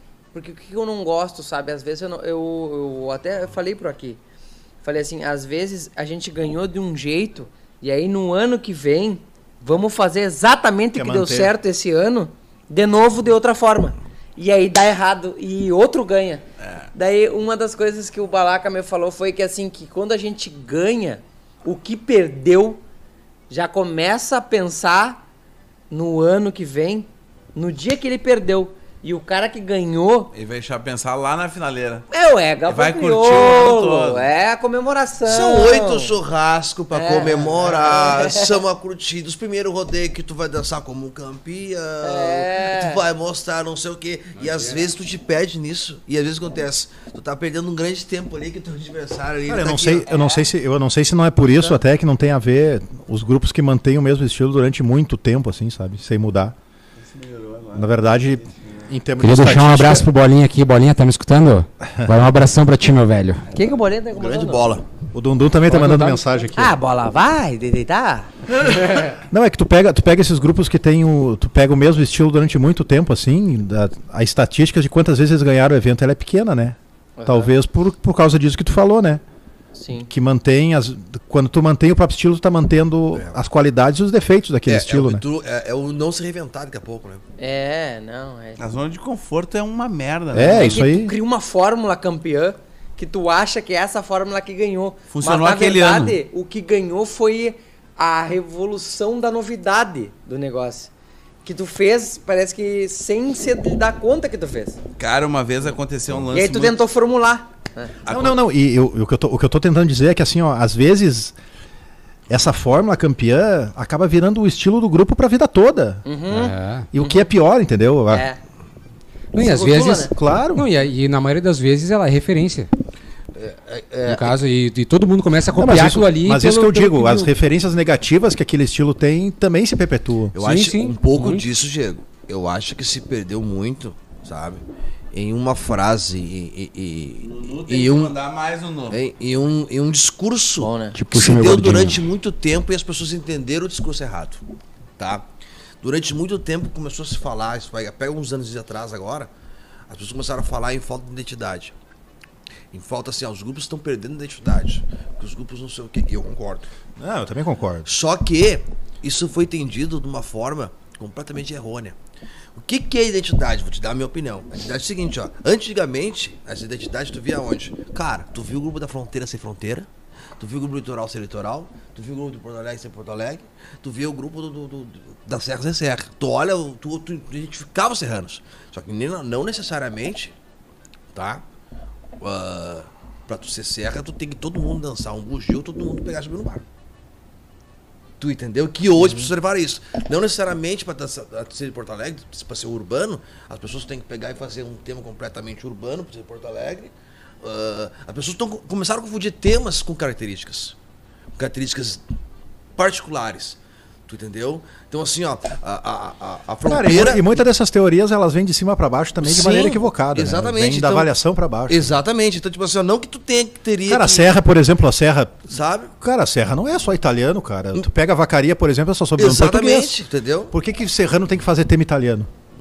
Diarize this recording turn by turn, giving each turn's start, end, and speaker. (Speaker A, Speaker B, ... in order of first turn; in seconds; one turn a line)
Speaker A: 0.3-4.2
Speaker A: 4.8-16.4
Speaker B: 10.9-11.5
Speaker C: 16.6-16.9
Speaker A: 16.9-22.8
Speaker A: 23.5-25.2
Speaker A: 25.9-30.3
Speaker C: 30.3-32.1
Speaker A: 32.1-36.2
Speaker C: 32.6-34.3
Speaker D: 35.2-50.2
Speaker A: 36.9-38.6
Speaker A: 42.0-43.0
Speaker B: 49.5-56.5
Speaker A: 50.1-50.4
Speaker C: 57.0-58.9
Speaker B: 57.7-60.1
Speaker E: 59.2-63.5
Speaker A: 63.5-64.7
Speaker D: 64.1-64.8
Speaker B: 65.1-66.8
Speaker A: 65.8-68.3
Speaker B: 69.1-79.2
Speaker A: 77.2-77.5
Speaker A: 79.7-80.1
Speaker B: 80.1-85.2
Speaker D: 84.7-87.2
Speaker A: 87.4-88.6
Speaker C: 88.6-90.8
Speaker B: 90.3-91.1
Speaker A: 90.4-100.9
Speaker C: 95.1-96.2
Speaker A: 101.4-104.8
Speaker C: 105.0-106.8
Speaker A: 106.3-107.9
Speaker C: 108.0-108.4
Speaker B: 108.1-111.3
Speaker B: 112.3-116.0
Speaker A: 116.0-117.3
Speaker E: 116.3-116.9
Speaker B: 116.9-118.2
Speaker A: 118.1-118.4
Speaker A: 119.3-120.1
Speaker E: 119.3-122.7
Speaker B: 120.1-120.7
Speaker D: 123.3-124.3
Speaker E: 124.0-127.3
Speaker B: 125.6-130.3
Speaker D: 130.3-138.1
Speaker E: 130.4-131.4
Speaker C: 137.2-139.0
Speaker D: 138.9-144.4
Speaker A: 140.6-141.0
Speaker E: 140.9-142.0
Speaker D: 145.0-145.3
Speaker D: 145.8-149.3
Speaker D: 149.9-151.7
Speaker D: 152.7-156.7
Speaker B: 157.0-157.9
Speaker D: 157.8-162.0
Speaker D: 162.6-180.3
Speaker D: 181.1-181.4
Speaker D: 182.2-186.6
Speaker D: 188.2-200.8
Speaker A: 189.0-189.3
Speaker D: 201.3-202.0
Speaker D: 202.8-207.4
Speaker B: 206.6-211.9
Speaker D: 209.2-211.1
Speaker D: 211.7-214.3
Speaker B: 213.8-220.0
Speaker D: 215.5-215.9
Speaker D: 219.2-220.5
Speaker B: 220.5-222.3